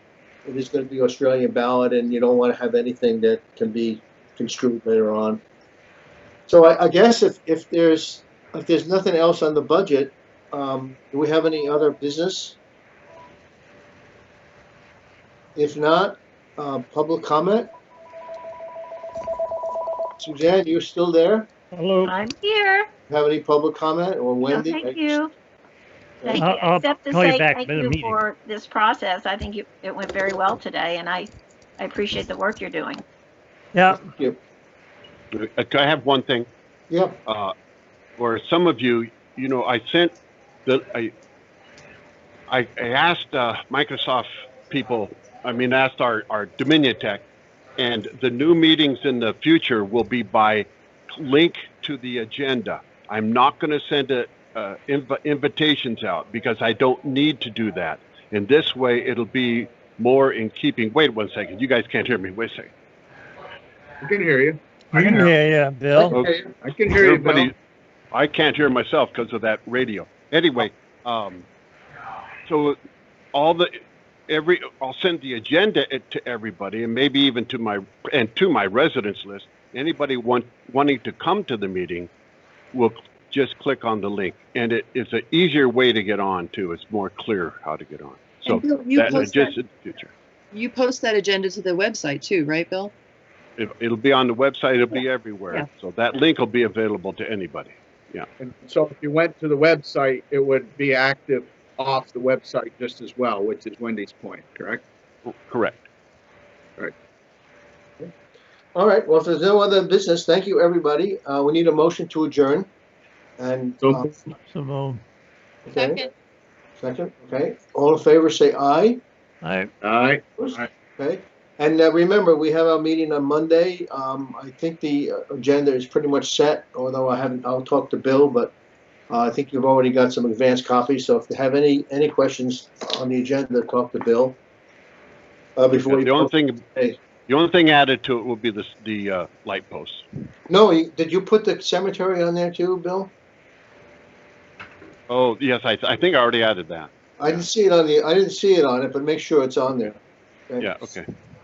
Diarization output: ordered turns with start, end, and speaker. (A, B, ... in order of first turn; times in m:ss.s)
0:00.4-0:05.4 A
0:06.5-0:12.6 A
0:15.6-0:17.7 A
0:20.2-0:21.5 A
0:21.7-0:22.2 B
0:22.0-0:22.9 C
0:23.1-0:25.2 A
0:24.5-0:25.3 C
0:26.2-0:26.5 A
0:26.2-0:33.0 C
0:26.3-0:28.2 B
0:33.7-0:34.0 B
0:33.9-0:34.4 A
0:35.3-0:36.5 D
0:36.9-0:37.2 A
0:37.2-0:37.5 D
0:38.2-0:40.1 D
0:40.6-0:41.1 D
0:42.5-0:47.2 D
0:47.8-1:02.7 D
1:04.0-1:05.4 E
1:04.9-1:06.2 B
1:06.0-1:07.5 E
1:06.9-1:07.5 D
1:08.1-1:11.4 D
1:12.5-1:12.8 D
1:13.3-1:22.1 D
1:22.7-1:30.1 D
1:28.5-1:29.5 F
1:30.5-1:32.9 F
1:33.6-1:38.2 D
1:38.4-1:44.8 E
1:45.2-1:45.9 D
1:48.7-1:52.7 A
1:53.4-1:54.1 A
1:53.8-1:54.1 E
1:54.5-1:55.0 B
1:55.7-1:56.1 A
1:56.8-1:59.0 A
1:59.4-1:59.7 B
1:59.8-2:00.7 E
2:00.4-2:08.5 A
2:09.1-2:14.4 A
2:15.6-2:17.0 A
2:15.9-2:16.6 D
2:17.3-2:20.0 D
2:20.5-2:23.1 A
2:25.1-2:27.4 D
2:27.2-2:29.9 A
2:30.5-2:30.9 A
2:30.6-2:31.0 D